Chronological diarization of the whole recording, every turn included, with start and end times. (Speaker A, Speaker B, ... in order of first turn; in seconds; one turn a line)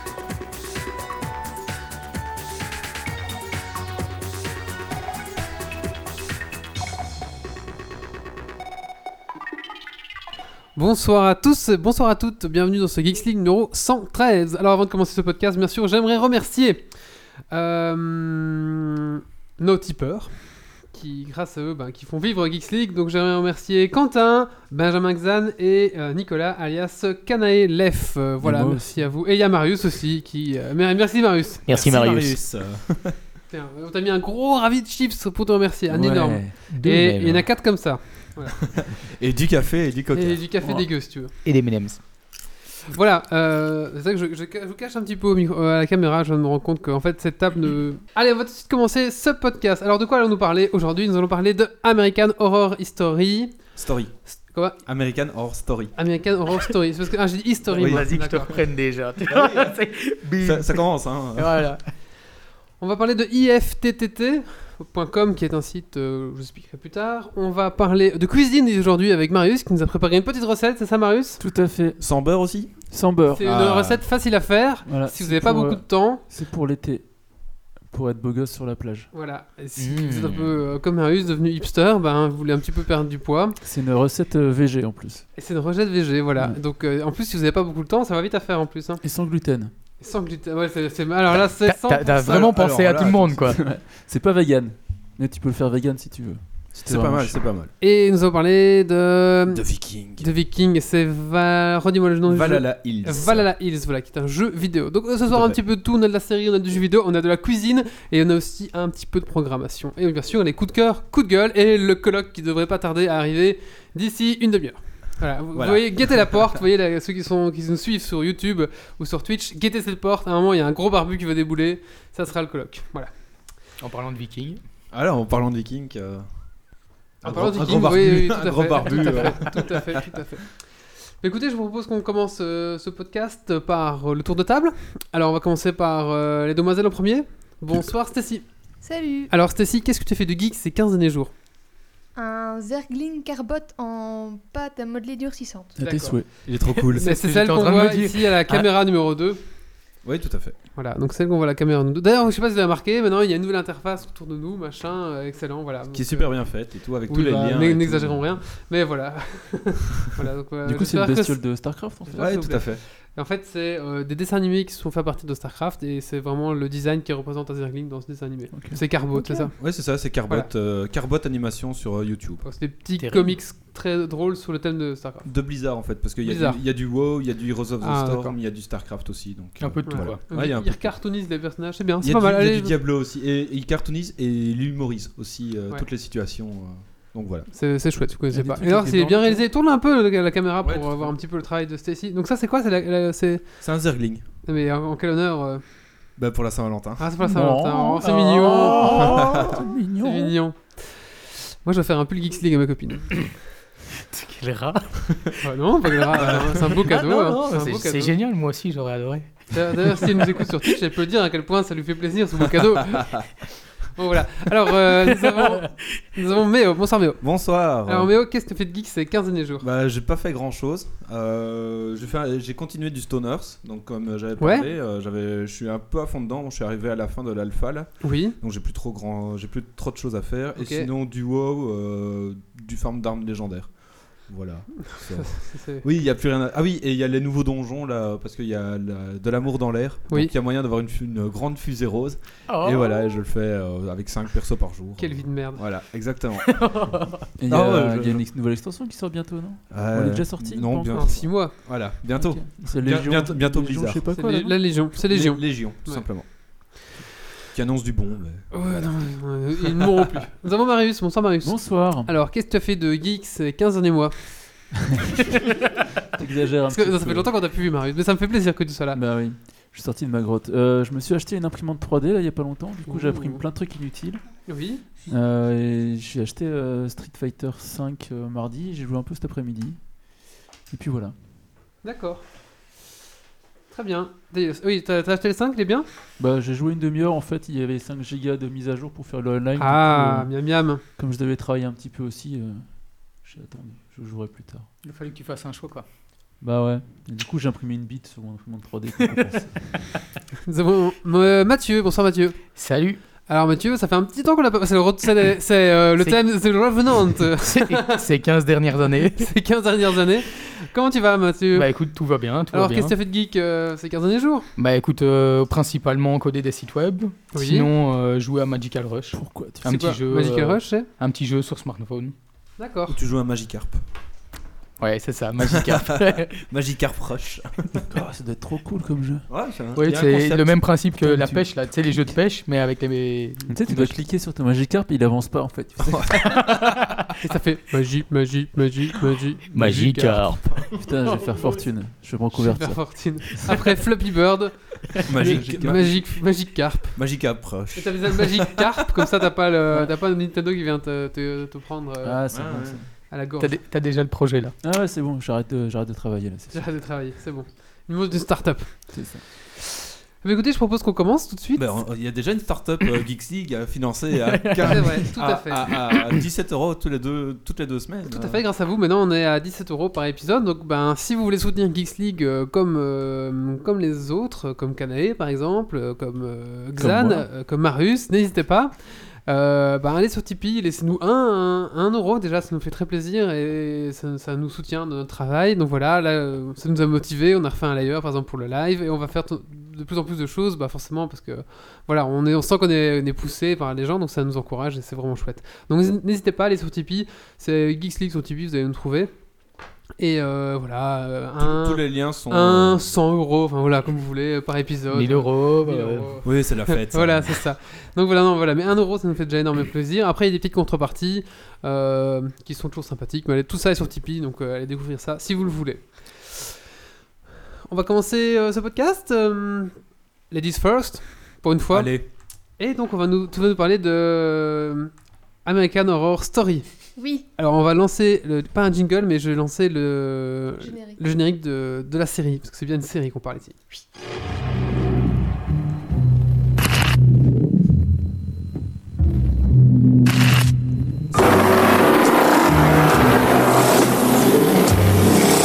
Speaker A: 10.7-31.6
Speaker B: 28.4-29.1
Speaker C: 31.7-32.4
Speaker D: 31.7-33.1
Speaker A: 33.5-38.6
Speaker B: 35.9-36.8
Speaker C: 36.7-37.4
Speaker D: 38.7-40.9
Speaker A: 40.1-41.3
Speaker C: 41.4-42.0
Speaker A: 42.9-54.8
Speaker D: 53.8-55.9
Speaker A: 55.9-58.6
Speaker D: 57.7-58.3
Speaker C: 57.8-61.8
Speaker D: 59.3-59.8
Speaker D: 60.4-61.6
Speaker A: 62.8-71.4
Speaker B: 71.4-73.5
Speaker D: 72.0-72.9
Speaker A: 73.3-76.2
Speaker D: 73.4-74.0
Speaker B: 74.8-79.1
Speaker A: 79.1-83.5
Speaker C: 79.8-80.3
Speaker B: 83.6-85.3
Speaker A: 85.3-89.0
Speaker B: 89.0-89.7
Speaker A: 90.0-92.3
Speaker C: 91.6-93.6
Speaker D: 92.2-93.5
Speaker B: 93.5-97.5
Speaker D: 96.7-97.7
Speaker A: 97.8-123.5
Speaker D: 99.5-100.2
Speaker D: 102.2-103.5
Speaker D: 105.2-105.6
Speaker D: 115.5-116.6
Speaker C: 123.8-124.6
Speaker D: 124.9-130.0
Speaker A: 127.2-141.3
Speaker E: 138.8-139.3
Speaker E: 142.1-145.8
Speaker B: 145.8-146.5
Speaker A: 145.8-146.4
Speaker D: 146.4-147.4
Speaker C: 146.8-148.6
Speaker A: 146.9-149.4
Speaker D: 150.0-150.6
Speaker A: 150.7-170.5
Speaker D: 155.9-158.4
Speaker B: 160.6-162.3
Speaker D: 162.2-162.8
Speaker B: 168.5-168.8
Speaker E: 169.1-169.5
Speaker D: 169.6-172.4
Speaker A: 172.4-175.5
Speaker C: 173.0-173.4
Speaker D: 175.2-181.5
Speaker A: 176.2-176.6
Speaker A: 177.8-178.3
Speaker C: 179.6-180.2
Speaker A: 179.9-182.8
Speaker D: 182.0-187.5
Speaker A: 187.5-193.7
Speaker B: 188.3-189.4
Speaker D: 190.6-191.1
Speaker D: 193.6-194.2
Speaker A: 194.4-195.9
Speaker D: 196.2-197.0
Speaker A: 197.0-199.1
Speaker B: 197.2-200.3
Speaker C: 198.4-199.7
Speaker D: 199.1-199.4
Speaker A: 200.0-203.3
Speaker C: 204.1-205.0
Speaker A: 205.4-208.2
Speaker D: 206.2-206.6
Speaker C: 206.8-209.9
Speaker A: 209.5-213.2
Speaker A: 213.9-219.6
Speaker D: 217.2-218.1
Speaker D: 219.6-247.0
Speaker A: 224.4-224.7
Speaker A: 228.0-228.3
Speaker A: 230.6-230.9
Speaker A: 234.9-235.8
Speaker C: 242.5-243.2
Speaker A: 245.0-245.7
Speaker C: 246.4-247.2
Speaker B: 247.3-254.7
Speaker D: 247.5-248.4
Speaker D: 249.7-256.8
Speaker A: 250.9-251.5
Speaker A: 254.1-256.6
Speaker D: 257.5-259.7
Speaker A: 258.5-264.7
Speaker B: 261.4-262.1
Speaker B: 266.2-267.4
Speaker A: 266.7-269.0
Speaker B: 268.9-274.4
Speaker A: 272.9-273.4
Speaker A: 274.4-274.8
Speaker B: 275.1-281.1
Speaker A: 281.8-282.2
Speaker A: 283.7-285.8
Speaker B: 286.2-294.7
Speaker A: 289.6-290.8
Speaker C: 294.8-295.8
Speaker B: 296.4-299.7
Speaker A: 300.5-302.6
Speaker C: 302.6-303.0
Speaker A: 303.3-308.0
Speaker C: 306.0-306.8
Speaker C: 307.4-309.3
Speaker A: 309.2-311.7
Speaker C: 311.5-312.9
Speaker A: 312.5-314.5
Speaker C: 314.6-322.1
Speaker A: 317.3-317.7
Speaker B: 319.1-319.6
Speaker A: 319.7-320.9
Speaker A: 322.6-322.9
Speaker D: 322.9-323.8
Speaker C: 324.8-326.3
Speaker D: 325.4-327.8
Speaker B: 327.9-329.3
Speaker D: 329.3-330.8
Speaker C: 329.8-334.0
Speaker B: 331.0-331.4
Speaker B: 333.5-336.4
Speaker D: 335.8-336.9
Speaker A: 337.2-340.2
Speaker C: 339.5-340.7
Speaker B: 340.7-343.4
Speaker A: 342.4-347.0
Speaker D: 345.1-346.3
Speaker B: 345.2-345.9
Speaker D: 346.9-348.5
Speaker A: 347.7-352.2
Speaker B: 352.0-352.9
Speaker D: 352.3-352.8
Speaker A: 353.1-353.5
Speaker C: 353.4-354.5
Speaker B: 354.6-356.8
Speaker A: 356.5-361.8
Speaker B: 358.9-359.2
Speaker D: 361.6-368.4
Speaker C: 364.1-365.1
Speaker A: 364.7-365.6
Speaker C: 365.9-366.2
Speaker A: 368.1-399.1
Speaker B: 376.8-377.3
Speaker A: 400.0-416.5
Speaker D: 401.4-402.9
Speaker C: 404.9-406.2
Speaker D: 406.2-407.4
Speaker A: 417.7-422.0
Speaker D: 421.7-422.1
Speaker A: 422.6-424.9
Speaker A: 425.4-426.6
Speaker E: 426.9-427.3
Speaker A: 427.4-433.6
Speaker E: 430.6-431.0